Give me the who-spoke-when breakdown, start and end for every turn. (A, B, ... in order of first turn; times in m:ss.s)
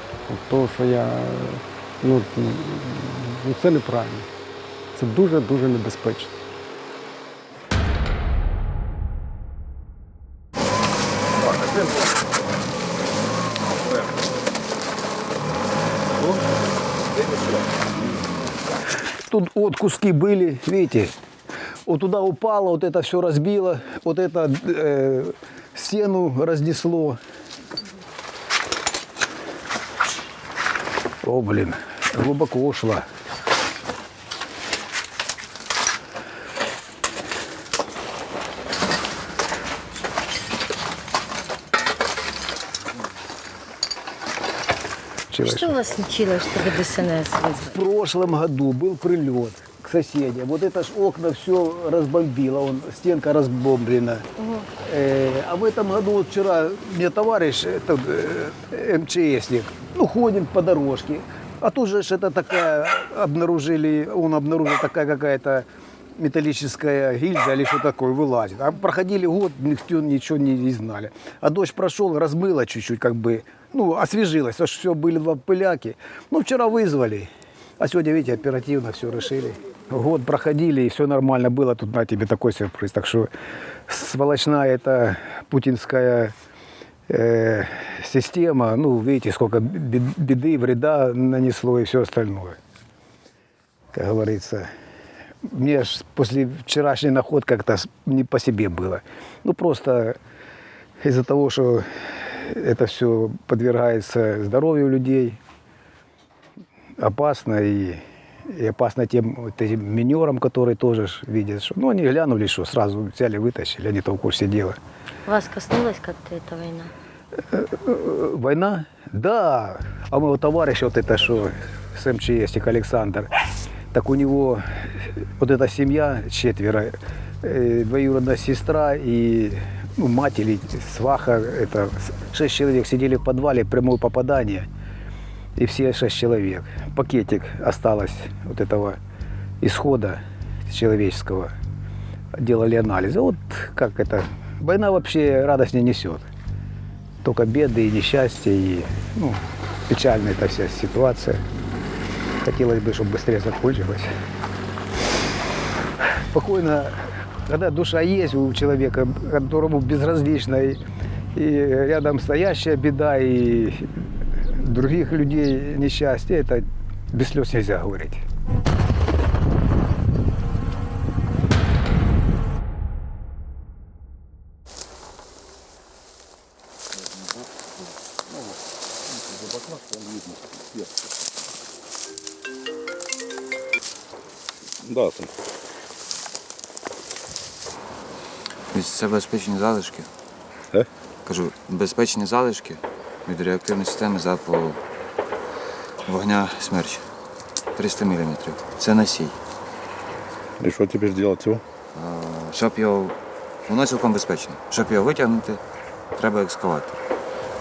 0:00.3-0:04.3 A
0:04.9-0:06.4 A
0:11.5-0:11.9 B
0:17.1-0:17.8 B
0:19.3-0:21.1 C
0:21.9-0:27.2 C
0:31.2-0:33.1 C
0:45.3-0:45.7 C
0:45.4-0:47.8 D
0:47.7-0:54.3 C
0:54.4-0:54.7 D
0:54.8-1:05.7 C
1:06.2-1:23.3 C
1:23.9-1:26.3 C
1:27.1-1:32.6 C
1:33.9-1:34.7 C
1:35.4-1:40.2 C
1:41.0-1:45.4 C
1:47.0-1:54.8 C
1:55.3-1:56.9 D
1:57.5-2:03.3 C
2:03.9-2:14.7 C
2:15.6-2:19.0 C
2:19.6-2:21.5 C
2:22.4-2:26.3 C
2:27.2-2:31.4 C
2:32.4-2:34.1 C
2:36.3-2:40.8 C
2:41.4-2:43.9 C
2:44.6-2:48.2 C
2:59.2-3:00.8 B
3:04.8-3:05.3 B
3:08.7-3:10.1 E
3:11.3-3:14.8 E
3:16.0-3:17.0 E
3:17.8-3:19.4 E
3:20.6-3:21.6 B
3:22.0-3:25.6 E
3:26.2-3:27.0 E